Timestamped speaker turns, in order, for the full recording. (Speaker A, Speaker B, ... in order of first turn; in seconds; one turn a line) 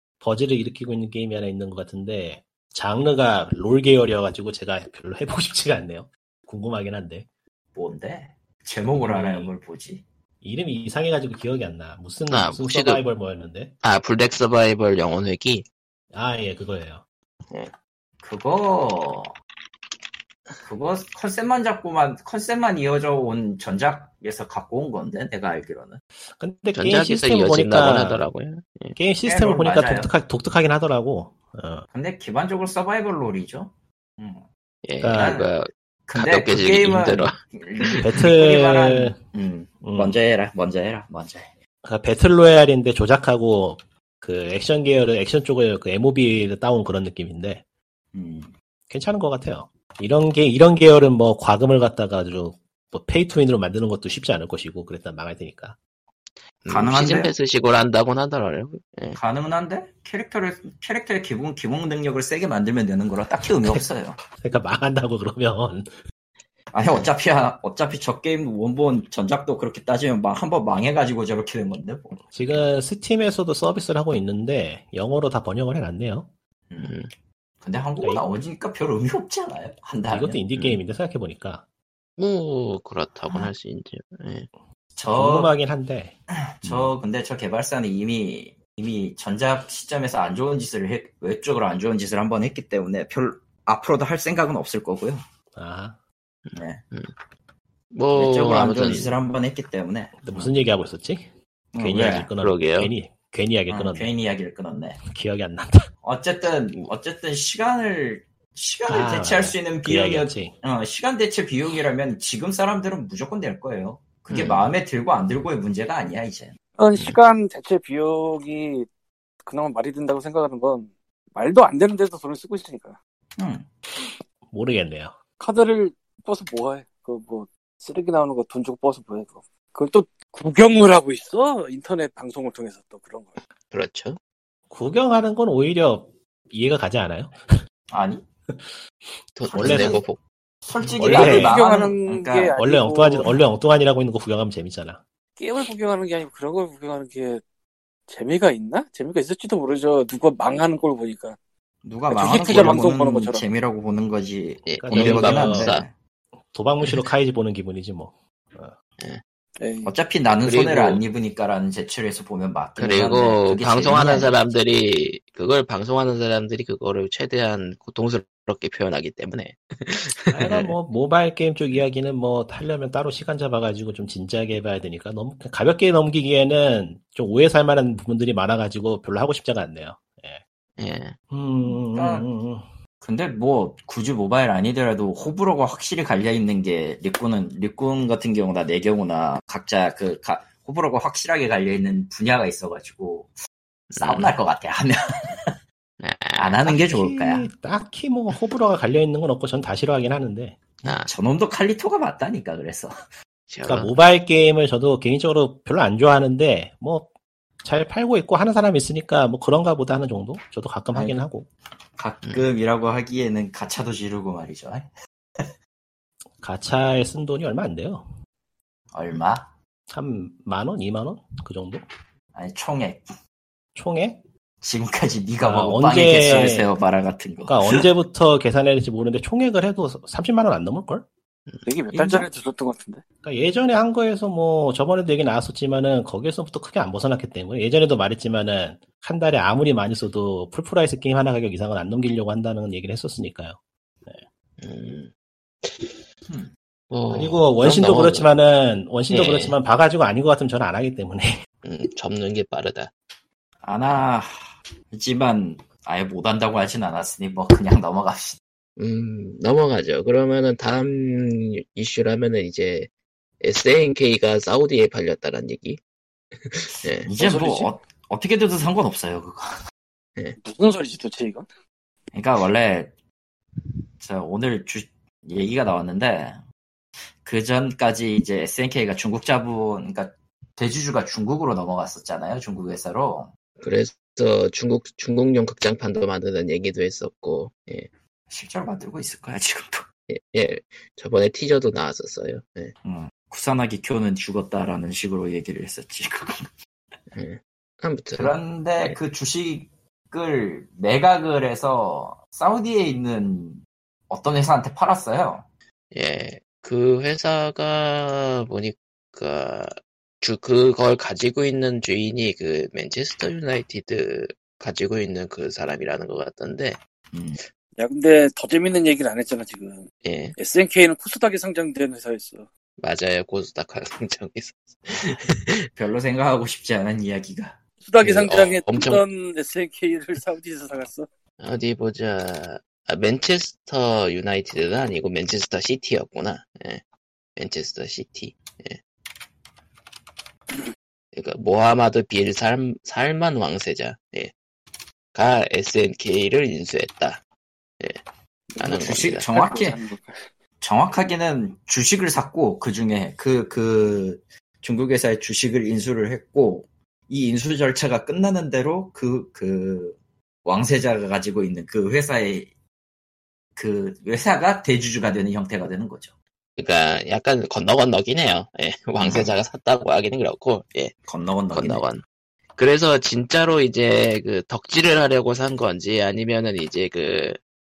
Speaker A: 0.2-7.3
Speaker B: 7.8-10.0
Speaker C: 9.0-9.5
Speaker A: 10.4-13.7
Speaker C: 12.3-13.0
Speaker C: 13.8-15.7
Speaker A: 16.1-17.0
Speaker B: 18.2-19.3
Speaker B: 20.6-26.0
Speaker A: 26.3-28.2
Speaker C: 26.8-29.0
Speaker A: 29.0-31.9
Speaker B: 29.2-30.1
Speaker B: 31.9-34.5
Speaker C: 34.8-38.1
Speaker A: 35.0-35.4
Speaker B: 35.1-35.5
Speaker B: 36.1-41.5
Speaker A: 38.0-39.2
Speaker A: 39.8-40.2
Speaker A: 41.8-47.6
Speaker B: 48.1-48.5
Speaker A: 48.9-55.8
Speaker C: 56.6-59.2
Speaker B: 56.7-57.3
Speaker B: 59.2-64.2
Speaker A: 63.6-65.9
Speaker B: 66.7-72.2
Speaker A: 72.3-76.3
Speaker B: 76.7-77.0
Speaker C: 76.8-77.1
Speaker B: 77.6-80.4
Speaker A: 78.0-78.3
Speaker A: 80.1-81.6
Speaker C: 82.2-84.5
Speaker B: 85.0-85.5
Speaker A: 85.1-86.2
Speaker B: 86.6-95.2
Speaker A: 95.5-96.0
Speaker C: 96.5-97.1
Speaker B: 96.5-96.8
Speaker C: 97.9-99.2
Speaker B: 98.1-100.7
Speaker A: 100.2-104.1
Speaker B: 101.7-102.3
Speaker C: 102.0-102.9
Speaker B: 103.7-105.0
Speaker A: 105.0-105.9
Speaker B: 106.0-116.5
Speaker A: 108.9-110.5
Speaker C: 114.3-114.7
Speaker D: 116.8-118.9
Speaker D: 119.4-123.0
Speaker B: 123.4-123.7
Speaker A: 124.0-125.2
Speaker D: 125.4-133.4
Speaker C: 133.7-134.2
Speaker A: 134.7-137.4
Speaker B: 137.9-138.2
Speaker A: 138.5-138.8
Speaker C: 139.4-140.2
Speaker B: 139.5-140.1
Speaker A: 139.5-140.0
Speaker B: 140.7-142.5
Speaker A: 141.0-141.6
Speaker C: 141.1-141.3
Speaker D: 141.1-143.3
Speaker A: 142.6-145.0
Speaker D: 145.4-147.4
Speaker D: 148.1-151.4
Speaker B: 151.8-155.9
Speaker D: 152.1-153.4
Speaker C: 152.5-152.8
Speaker C: 154.7-155.9
Speaker A: 154.8-155.7
Speaker A: 156.5-158.8
Speaker D: 159.6-159.9
Speaker B: 159.8-164.3
Speaker C: 160.4-161.0
Speaker C: 162.8-170.7
Speaker A: 170.3-180.4
Speaker C: 180.8-181.2
Speaker A: 181.3-182.7
Speaker B: 181.6-182.3
Speaker B: 183.0-193.3
Speaker C: 193.9-194.3
Speaker B: 194.0-195.5
Speaker C: 196.0-196.6
Speaker B: 196.3-197.5
Speaker A: 196.7-200.6
Speaker C: 200.8-201.1
Speaker B: 200.8-202.9
Speaker C: 203.5-203.9
Speaker A: 203.7-207.1
Speaker A: 207.6-211.5
Speaker B: 210.9-211.2
Speaker B: 212.0-215.5
Speaker A: 216.4-218.1
Speaker B: 218.9-219.5
Speaker A: 219.9-221.8
Speaker B: 222.3-223.1
Speaker A: 223.8-224.2
Speaker B: 224.6-227.8
Speaker A: 225.4-226.7
Speaker A: 227.5-231.1
Speaker D: 231.7-233.0
Speaker B: 231.9-232.3
Speaker A: 233.2-244.2
Speaker C: 244.6-245.1
Speaker C: 245.6-246.0
Speaker C: 246.9-248.3
Speaker A: 247.1-251.3
Speaker C: 249.1-249.6
Speaker C: 251.6-252.9
Speaker B: 253.6-258.4
Speaker C: 258.8-262.9
Speaker C: 263.4-265.8
Speaker C: 266.4-267.1
Speaker B: 267.0-269.5
Speaker D: 267.2-267.7
Speaker D: 270.4-271.5
Speaker B: 272.1-272.9
Speaker B: 273.6-276.4
Speaker B: 277.2-283.3
Speaker C: 283.6-287.9
Speaker B: 288.3-289.9
Speaker C: 290.1-292.7
Speaker B: 292.8-296.4
Speaker C: 297.1-299.0
Speaker B: 298.2-305.5
Speaker C: 305.9-316.8
Speaker B: 317.1-317.4
Speaker D: 317.8-322.5
Speaker C: 320.0-320.4
Speaker C: 322.8-325.7
Speaker B: 325.8-327.6
Speaker D: 327.8-331.1
Speaker C: 328.0-329.0
Speaker C: 331.4-336.8
Speaker C: 337.4-338.8
Speaker C: 341.1-344.3
Speaker C: 345.1-347.2
Speaker D: 348.5-350.2
Speaker C: 348.6-349.3
Speaker B: 348.6-349.8
Speaker B: 350.6-362.5
Speaker B: 363.6-366.1
Speaker C: 366.6-371.0
Speaker B: 369.0-369.4
Speaker B: 371.1-371.9
Speaker C: 371.5-372.0
Speaker C: 372.6-377.4